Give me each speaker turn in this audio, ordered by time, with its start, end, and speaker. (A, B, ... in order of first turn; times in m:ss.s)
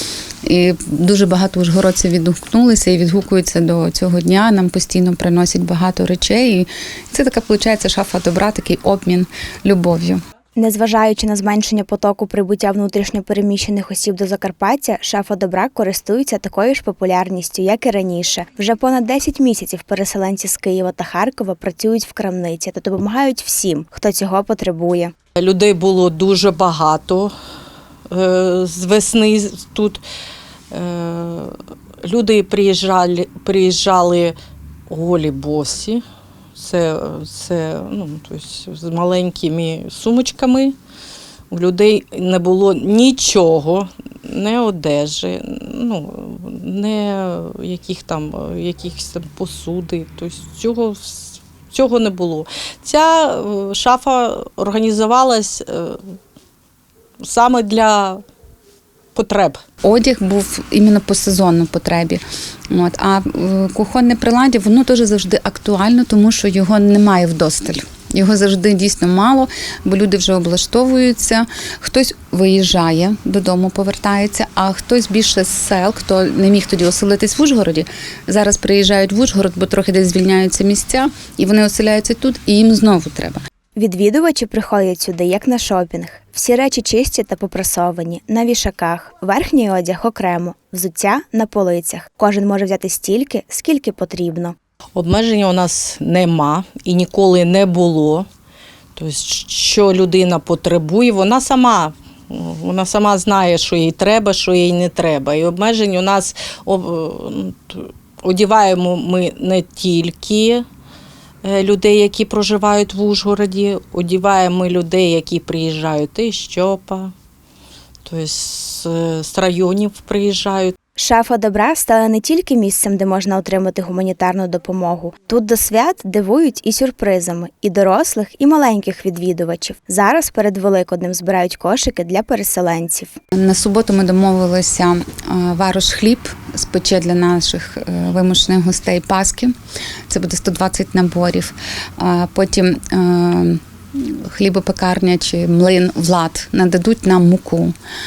0:00.5-0:10.2 A
0:10.6-0:25.1 B
0:25.4-0:27.3 C
0:28.1-0:30.0 C
0:30.7-0:31.5 C
0:32.0-0:34.4 C
0:34.9-0:36.0 C
0:36.6-0:40.8 C
0:41.5-0:56.0 C
0:57.2-0:58.2 C
0:59.2-0:59.6 C
0:59.8-1:02.2 A
1:02.7-1:23.4 A
1:23.8-1:34.6 B
1:35.0-1:38.3 C
1:39.0-1:50.6 C
1:51.4-1:57.1 C
1:58.1-2:00.8 C
2:01.0-2:13.1 B
2:13.4-2:19.5 A
2:20.1-2:27.7 A